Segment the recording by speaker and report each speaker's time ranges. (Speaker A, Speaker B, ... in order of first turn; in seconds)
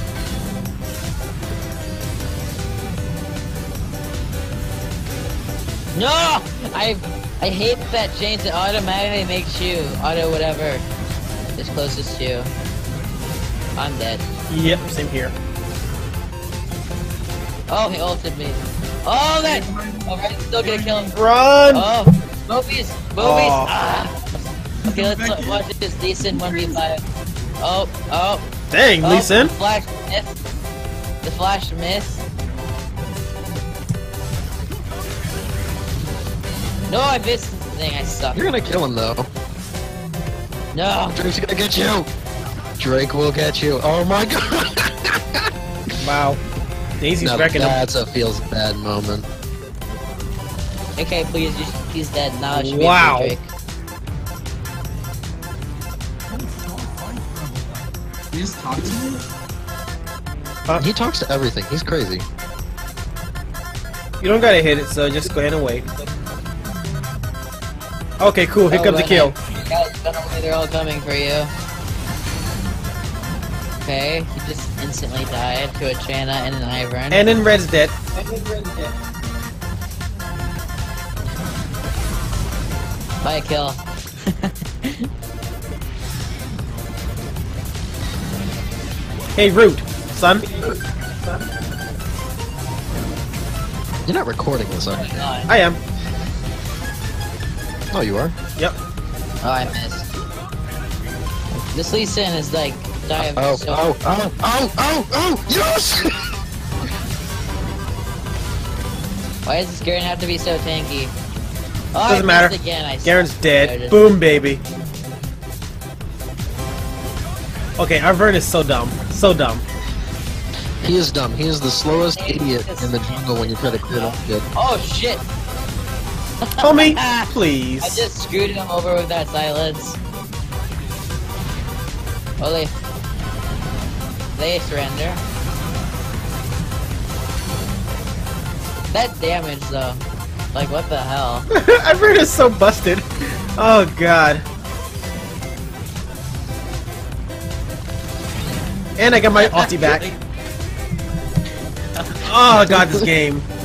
Speaker A: 5.9-10.8, 11.6-12.5, 13.8-14.2, 17.7-21.1, 21.7-27.0, 27.6-28.4, 29.0-30.3, 31.2-32.2, 36.9-38.4, 40.7-41.2, 51.0-53.5, 68.7-71.5, 73.8-77.3, 83.2-85.1, 94.9-95.5, 99.4-100.1, 101.7-103.8, 109.4-111.1, 111.9-114.2, 122.1-125.2, 126.6-127.3, 127.8-130.0, 132.4-132.7, 134.3-135.2, 138.9-140.0, 140.5-141.5, 149.4-150.0
Speaker B: 14.5-15.3, 21.1-21.9, 23.2-23.7, 28.7-29.5, 46.0-46.4, 47.0-48.0, 52.5-53.3, 64.2-65.9, 68.2-69.3, 77.1-78.1, 89.3-90.5, 95.5-95.8, 112.0-114.6, 117.8-119.6, 126.6-128.1, 141.5-143.0, 143.6-144.4, 149.0-150.0, 152.2-153.4
Speaker C: 19.4-21.2, 24.8-25.6, 26.2-26.8, 56.3-57.6, 58.3-59.2
Speaker D: 38.3-39.3, 41.1-42.1, 42.8-45.5, 47.2-49.3, 60.8-62.2, 94.0-95.3, 97.9-98.3, 103.2-106.3, 120.8-124.4, 152.5-153.1